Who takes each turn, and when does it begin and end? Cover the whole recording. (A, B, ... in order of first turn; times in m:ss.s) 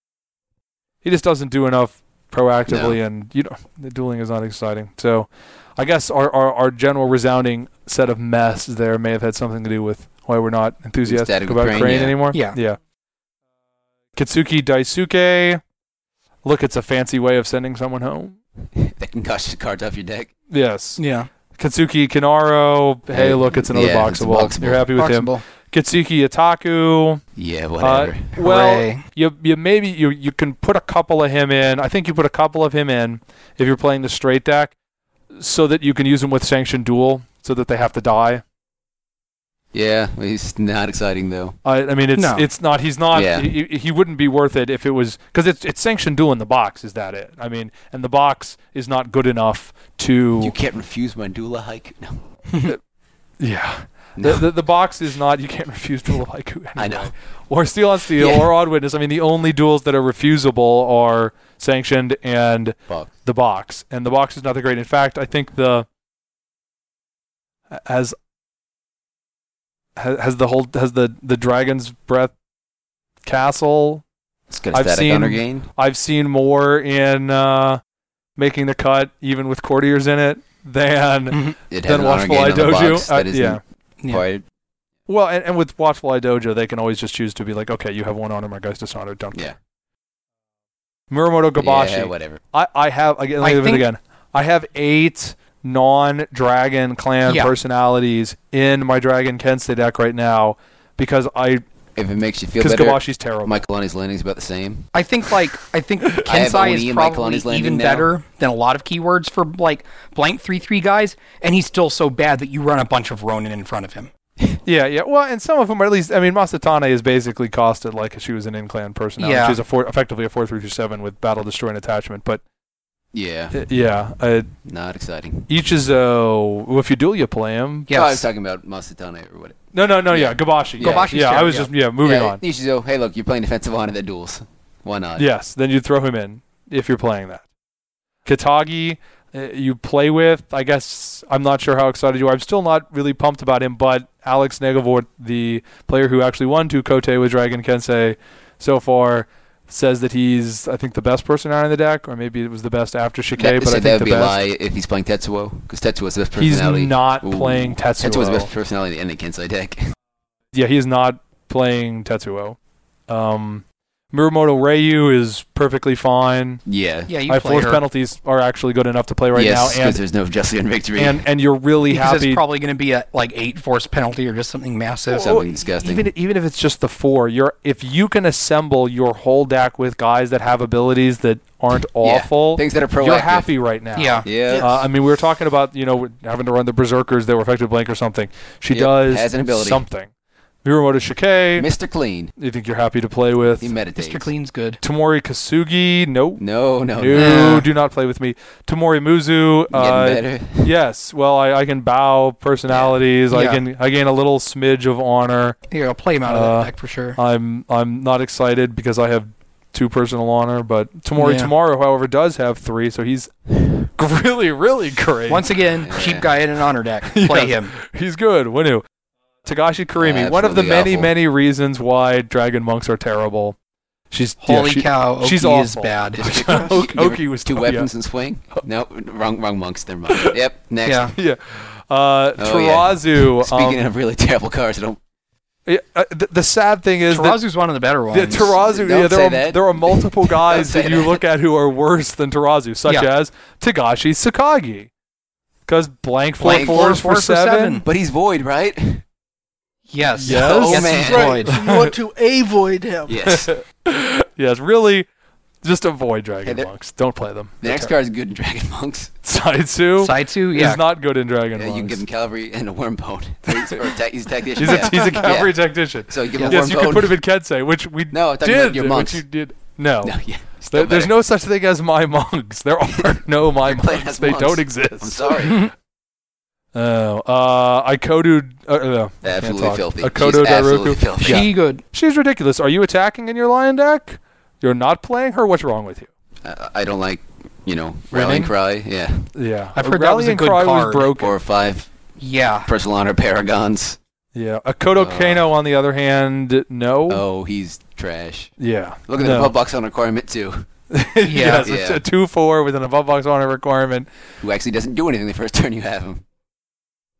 0:01.0-0:12.8 A
0:02.7-0:03.0 B
0:11.1-0:12.2 B
0:14.2-0:15.6 A
0:16.4-0:18.4 A
0:18.8-0:20.3 B
0:20.5-0:21.0 A
0:21.0-0:21.3 C
0:21.6-0:27.2 A
0:23.1-0:24.9 B
0:25.0-0:25.4 C
0:27.4-0:28.3 B
0:27.8-0:34.7 A
0:28.4-0:29.0 C
0:35.4-0:38.4 A
0:39.7-0:41.6 B
0:41.6-0:50.5 A
0:42.2-0:42.4 C
0:43.1-0:43.5 B
0:50.4-0:52.2 B
0:53.4-1:05.9 A
0:54.2-0:54.4 B
0:56.8-0:57.1 B
1:07.7-1:08.2 A
1:10.0-1:12.3 A
1:13.2-1:14.0 A
1:14.5-1:15.7 B
1:14.7-1:17.8 A
1:18.4-1:23.6 A
1:21.7-1:24.4 B
1:25.1-1:29.5 A
1:31.1-1:41.6 A
1:31.6-1:32.4 B
1:33.4-1:33.8 C
1:37.3-1:37.5 C
1:42.0-1:44.9 B
1:42.6-1:43.6 A
1:45.0-1:54.1 C
1:46.2-1:48.1 B
1:54.7-2:02.4 A
1:59.2-1:59.6 C
2:03.1-2:03.6 B
2:03.5-2:04.5 A
2:04.6-2:05.5 B
2:05.5-2:07.9 A
2:07.9-2:08.2 C
2:07.9-2:11.1 B
2:09.7-2:12.4 A
2:10.8-2:11.7 C
2:12.0-2:15.3 B
2:15.2-2:17.4 A
2:18.3-2:34.4 A
2:33.4-2:40.0 B
2:36.4-2:38.5 A
2:40.5-2:42.6 A
2:43.1-2:46.6 A
2:46.7-2:47.1 B
2:47.1-2:47.8 C
2:47.3-2:50.0 A
2:49.3-2:51.2 B
2:51.0-2:52.4 A
2:51.9-2:55.3 C
2:55.1-2:56.1 B
2:55.2-3:10.1 A
3:02.0-3:03.5 B
3:04.0-3:04.3 C
3:04.2-3:04.8 B
3:04.5-3:04.8 D
3:08.7-3:09.8 B
3:10.6-3:11.7 A
3:11.6-3:12.3 B
3:12.4-3:13.8 A
3:13.6-3:14.3 B
3:14.0-3:14.8 C
3:14.8-3:16.4 A
3:16.4-3:17.6 B
3:17.0-3:25.6 A
3:17.1-3:17.7 C
3:19.7-3:20.7 B
3:22.7-3:23.0 B
3:23.3-3:23.6 C
3:25.7-3:27.2 C
3:26.3-3:35.5 A
3:31.2-3:31.5 C
3:35.3-3:37.7 C
3:35.8-3:36.3 B
3:37.1-3:38.8 A
3:39.4-3:43.6 A
3:40.0-3:41.1 B
3:44.1-3:47.9 A
3:44.4-3:46.3 C
3:46.2-3:51.1 B
3:50.1-3:50.4 A
3:50.8-3:51.1 C
3:51.2-3:53.8 A
3:52.4-3:55.0 B
3:55.7-3:57.4 A
3:57.1-3:58.6 C
3:58.1-4:04.9 A
3:58.6-4:01.2 B
4:05.7-4:07.8 A
4:06.4-4:07.8 C
4:06.4-4:07.0 B
4:07.8-4:09.0 B
4:09.9-4:11.6 C
4:10.2-4:11.9 A
4:10.3-4:11.4 B
4:10.9-4:13.2 D
4:13.1-4:13.5 B
4:13.3-4:15.1 A
4:15.6-4:17.9 A
4:16.4-4:16.7 B
4:17.6-4:19.1 B
4:19.2-4:22.0 A
4:20.0-4:20.8 C
4:21.6-4:25.6 B
4:24.6-4:30.2 A
4:26.1-4:27.2 B
4:28.1-4:29.2 B
4:30.0-4:31.1 B
4:30.7-4:35.7 A
4:33.0-4:35.7 B
4:36.7-4:46.1 A
4:39.2-4:41.5 B
4:41.2-4:41.8 C
4:46.4-4:49.3 B
4:48.1-4:48.5 A
4:49.4-4:51.4 A
4:49.8-4:51.1 C
4:51.2-4:51.9 B
4:52.2-4:52.7 C
4:52.7-4:54.0 B
4:54.4-4:57.2 A
4:55.0-4:55.4 B
4:57.1-4:58.5 B
4:58.6-4:59.5 A
4:59.1-5:00.7 B
5:00.9-5:04.1 A
5:01.3-5:01.7 C
5:01.6-5:02.0 B
5:04.4-5:06.2 B